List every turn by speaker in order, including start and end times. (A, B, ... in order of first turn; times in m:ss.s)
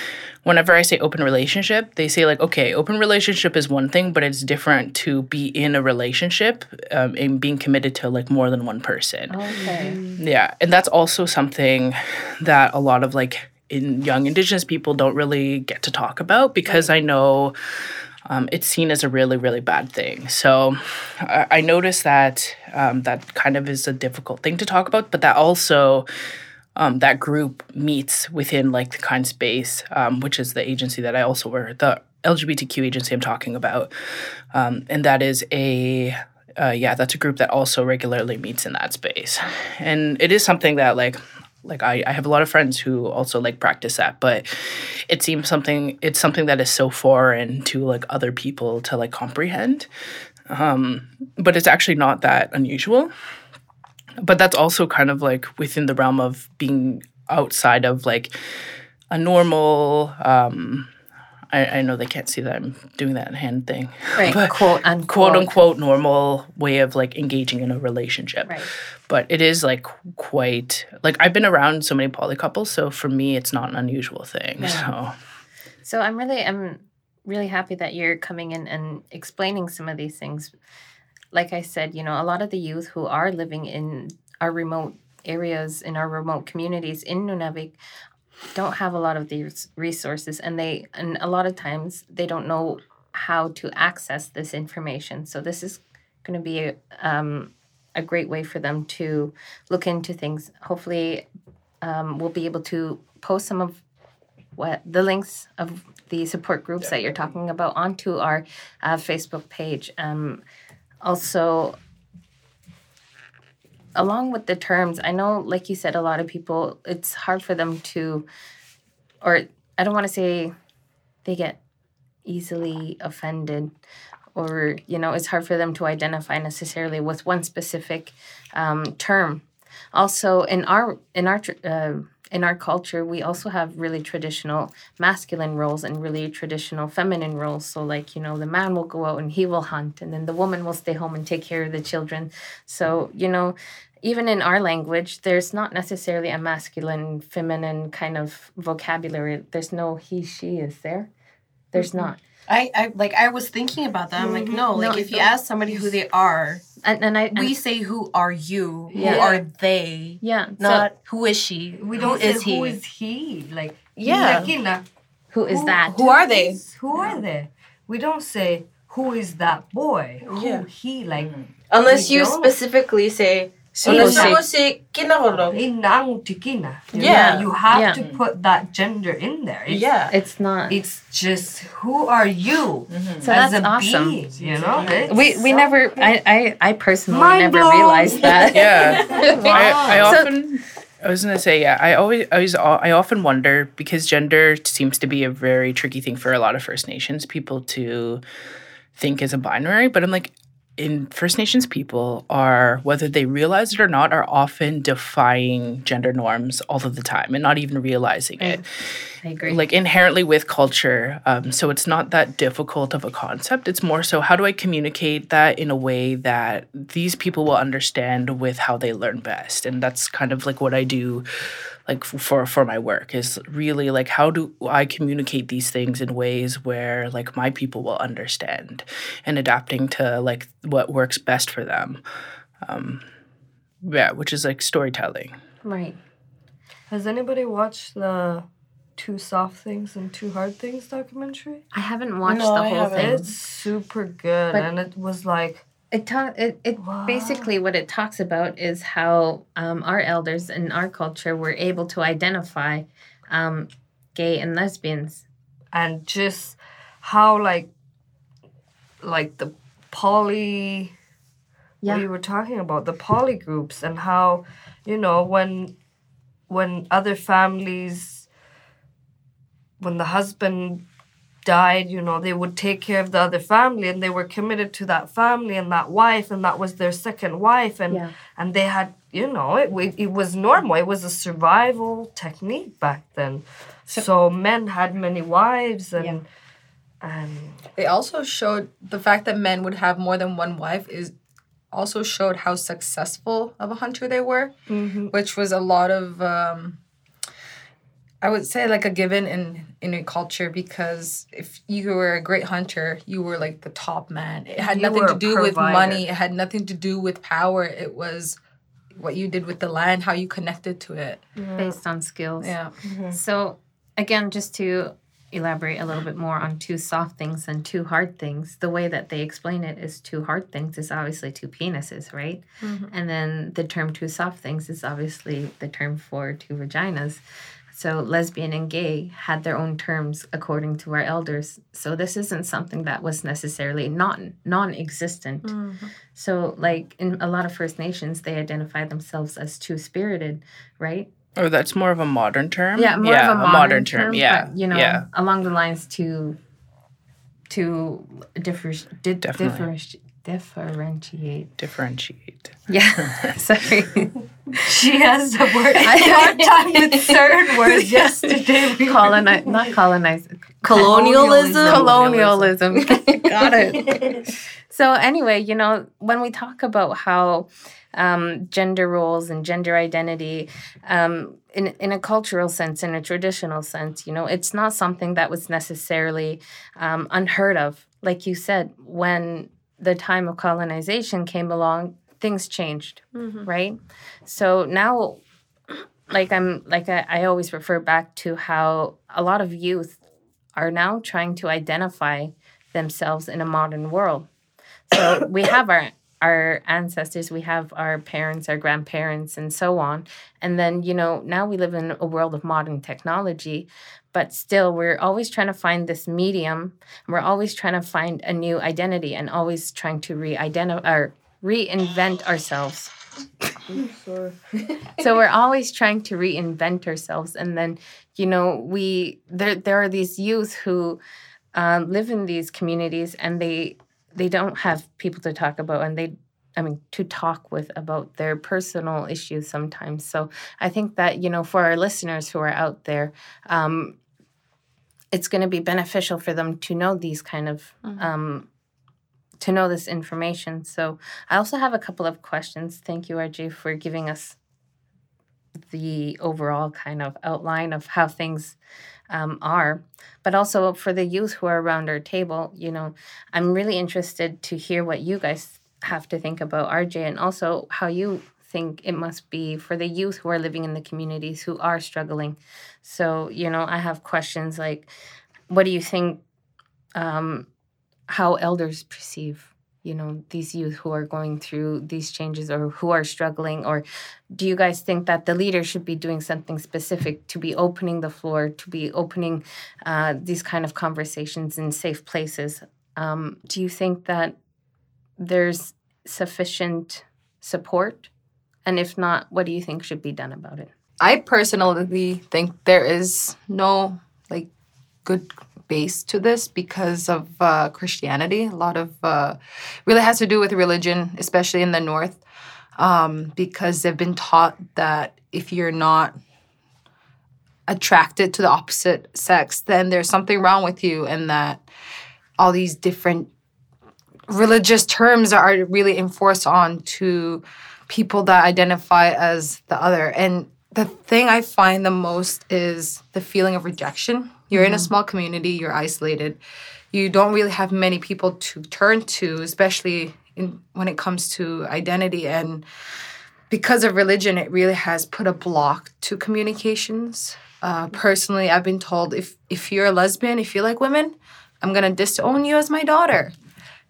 0:00.4-0:09.5 A
0:09.3-0:10.0 B
0:10.2-0:17.6 A
0:16.6-0:16.9 B
0:18.3-0:26.1 A
0:26.8-0:33.9 A
0:34.5-0:49.9 A
0:50.5-0:53.1 A
0:54.2-0:58.3 A
0:59.1-1:00.9 A
1:01.5-1:04.6 A
1:04.2-1:05.6 B
1:05.1-1:15.2 A
1:08.4-1:08.7 B
1:14.6-1:14.9 B
1:15.8-1:20.5 B
1:21.3-1:27.8 B
1:28.6-1:41.3 B
1:41.8-1:43.8 B
1:44.6-1:50.4 B
1:51.0-1:51.8 B
1:54.0-1:58.3 B
1:59.2-2:00.5 B
2:01.2-2:01.6 B
2:02.3-2:03.7 B
2:04.4-2:09.4 B
2:09.9-2:31.1 B
2:31.7-2:32.2 B
2:32.5-2:36.6 C
2:34.2-2:35.0 D
2:34.7-2:35.3 B
2:36.8-2:37.6 B
2:37.3-2:42.8 C
2:38.9-2:39.4 D
2:39.0-2:39.4 B
2:40.2-2:40.9 B
2:41.8-2:44.8 D
2:44.0-2:44.6 C
2:45.3-2:46.1 B
2:45.5-2:52.5 D
2:46.0-2:46.6 C
2:50.2-2:50.6 C
2:51.7-2:55.6 C
2:53.8-2:54.5 D
2:53.9-2:54.4 B
2:55.4-2:59.9 D
2:57.0-2:58.2 C
2:57.7-2:58.0 B
2:59.7-3:00.1 C
3:00.1-3:00.8 B
3:00.7-3:06.1 D
3:02.9-3:03.3 C
3:03.2-3:04.2 B
3:04.4-3:05.5 C
3:05.1-3:10.3 B
3:07.1-3:10.2 D
3:08.5-3:18.2 A
3:19.0-3:28.6 A
3:28.4-3:28.6 B
3:29.2-3:29.6 B
3:29.4-3:41.3 A
3:41.9-3:52.0 A
3:52.6-3:53.0 A
3:53.8-3:55.4 A
3:55.6-3:56.0 B
3:56.9-3:58.5 D
3:59.0-4:01.6 D
4:01.7-4:03.3 B
4:02.2-4:03.3 C
4:03.0-4:05.6 D
4:05.9-4:15.2 B
4:06.8-4:07.5 D
4:15.7-4:17.7 D
4:19.0-4:20.9 D
4:21.8-4:25.8 D
4:26.5-4:28.3 D
4:29.8-4:30.8 D
4:31.4-4:46.3 D
4:47.0-4:47.6 D
4:47.8-4:51.1 E
4:51.7-4:54.5 E
4:54.7-4:55.1 D
4:55.1-4:56.8 E
4:58.2-5:08.4 E
5:04.6-5:06.0 D
5:09.0-5:11.2 E
5:11.4-5:11.8 D
5:11.6-5:12.5 B
5:12.4-5:12.7 E
5:12.8-5:13.2 C
5:13.1-5:27.2 B
5:22.6-5:22.9 E
5:27.7-5:35.5 B
5:35.4-5:35.9 E
5:36.1-5:41.1 B
5:41.4-5:45.1 A
5:42.8-5:46.4 B
5:47.5-5:51.5 B
5:49.2-5:49.7 A
5:51.6-5:53.3 A
5:52.7-5:54.1 B
5:54.6-5:59.4 D
5:55.8-5:56.4 B
5:55.8-5:57.8 E
5:58.8-6:04.0 B
6:00.6-6:02.2 C
6:00.7-6:02.6 E
6:03.2-6:04.0 C
6:04.7-6:25.2 B
6:23.2-6:23.4 E
6:26.1-6:30.0 B
6:30.6-6:34.3 B
6:34.9-6:52.9 B
6:53.7-6:54.4 D
6:55.0-7:01.0 B
7:01.5-7:14.0 B
7:15.1-7:18.5 B
7:17.8-7:18.1 E
7:19.4-7:24.4 B
7:25.6-7:28.6 B
7:29.1-7:44.9 B
7:45.5-7:46.2 B
7:47.0-7:47.5 B
7:48.1-8:04.4 B
8:05.2-8:08.1 B
8:08.6-8:10.7 B
8:11.0-8:14.5 E
8:15.0-8:22.2 E
8:22.8-8:26.2 E
8:27.7-8:31.6 E
8:32.4-8:33.3 E
8:34.3-8:46.4 E
8:44.5-8:44.9 B
8:46.9-8:52.6 E
8:53.5-9:03.3 E